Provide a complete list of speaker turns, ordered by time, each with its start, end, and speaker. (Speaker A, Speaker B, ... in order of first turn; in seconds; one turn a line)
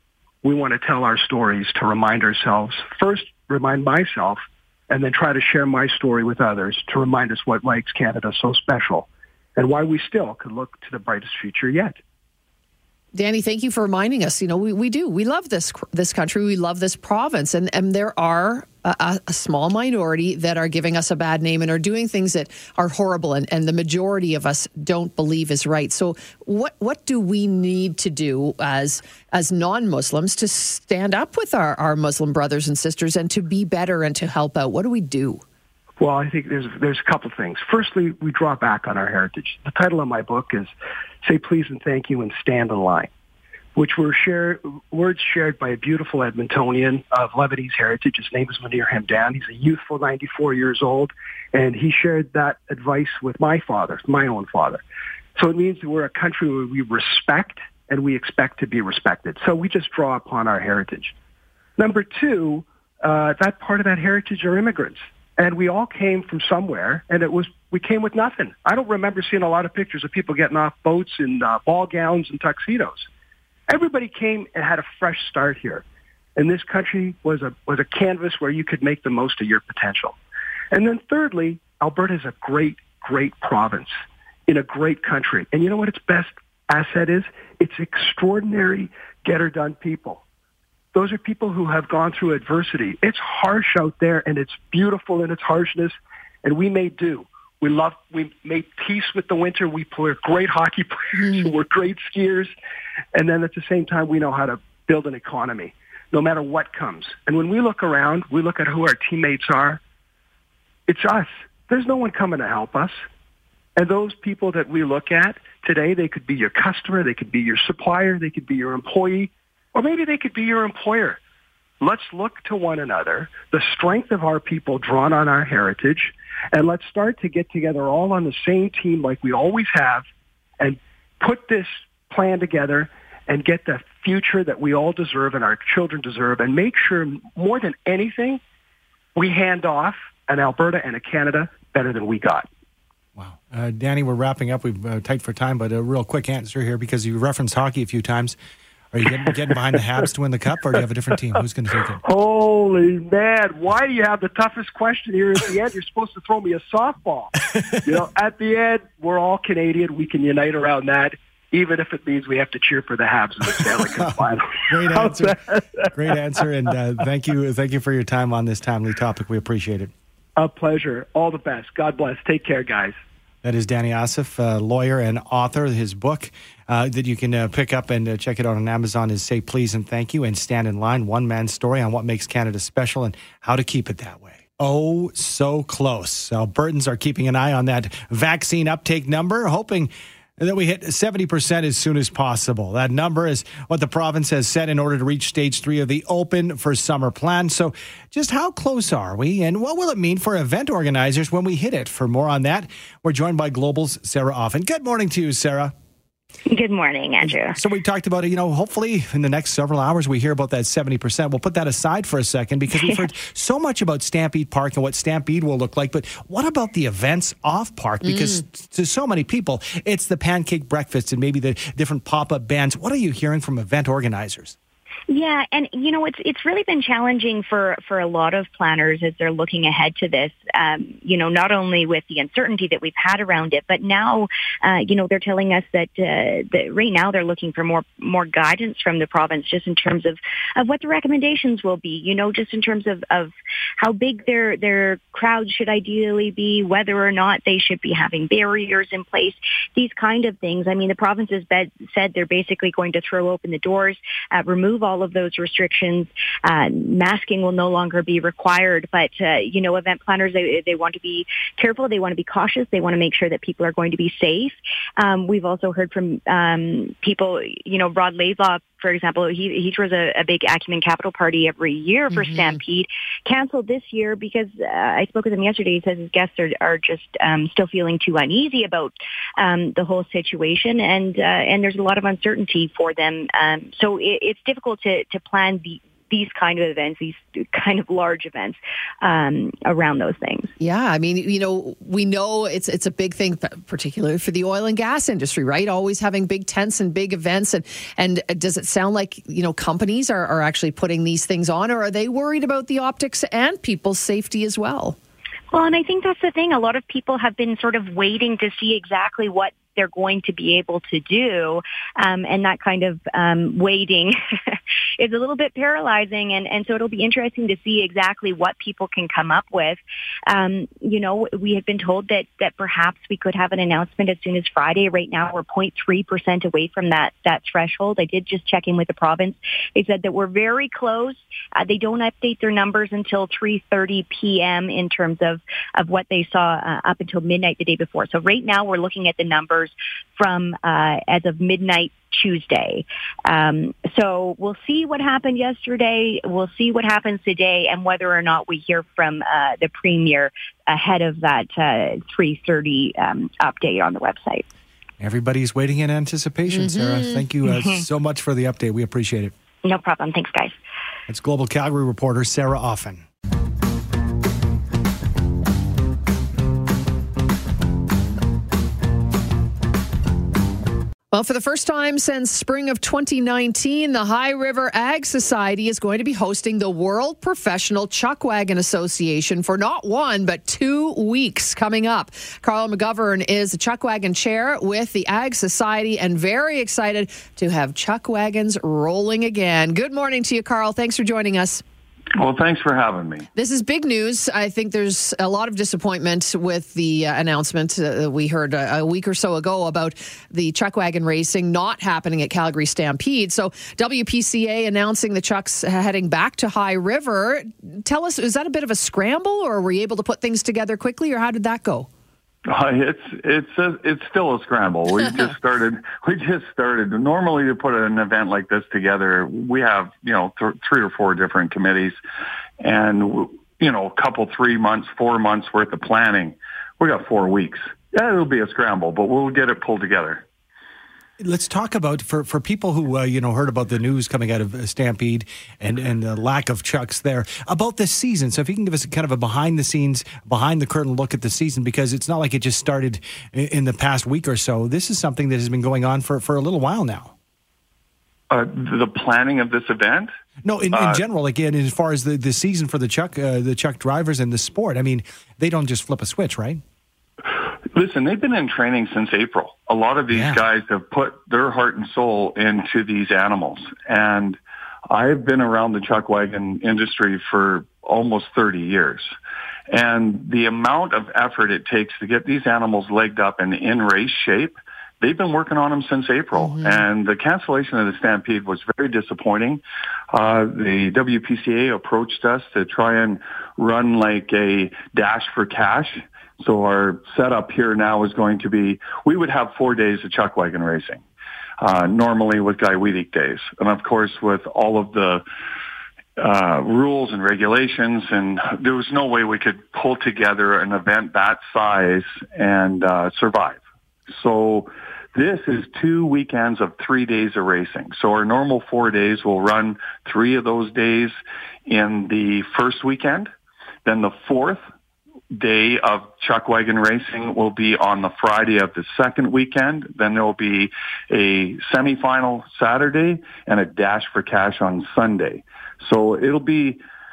Speaker A: 0.4-12.0
Speaker B: 13.1-35.4
Speaker A: 36.0-40.7
Speaker A: 41.2-43.1
Speaker A: 43.8-54.8
Speaker A: 55.4-61.1
Speaker A: 61.8-73.1
Speaker A: 73.7-75.8
Speaker A: 76.4-80.2
Speaker A: 80.7-83.9
Speaker A: 84.5-90.2
Speaker A: 90.9-102.5
Speaker B: 101.1-101.5
Speaker A: 103.1-109.8
Speaker A: 110.9-112.9
Speaker A: 113.8-121.2
Speaker A: 121.8-130.1
Speaker A: 130.6-138.4
Speaker A: 139.1-142.5
Speaker C: 143.2-148.4
Speaker C: 148.9-152.0
Speaker A: 152.0-165.8
Speaker C: 164.0-165.4
Speaker C: 165.9-169.9
Speaker A: 170.3-173.0
Speaker C: 173.4-205.7
Speaker D: 206.5-207.6
Speaker C: 207.2-224.6
Speaker B: 218.0-218.4
Speaker D: 225.1-290.5
Speaker B: 272.1-272.6
Speaker B: 290.6-304.9
Speaker D: 305.5-314.1
Speaker D: 315.0-354.4
Speaker C: 355.0-359.3
Speaker B: 356.5-357.2
Speaker D: 357.5-357.8
Speaker D: 359.6-360.6
Speaker C: 361.1-363.0
Speaker B: 371.1-391.6
Speaker E: 392.2-393.3
Speaker B: 393.4-411.9
Speaker E: 412.5-422.0
Speaker E: 422.6-430.2
Speaker C: 431.2-447.1
Speaker E: 448.3-450.1
Speaker C: 450.4-456.6
Speaker E: 450.7-451.0
Speaker E: 457.7-464.4
Speaker C: 460.1-460.4
Speaker E: 464.9-469.1
Speaker E: 469.7-479.6
Speaker B: 476.4-476.8
Speaker E: 480.1-491.0
Speaker E: 491.6-495.2
Speaker E: 496.2-503.6
Speaker E: 504.2-511.1
Speaker E: 511.7-513.3
Speaker E: 513.9-514.6
Speaker E: 515.4-526.8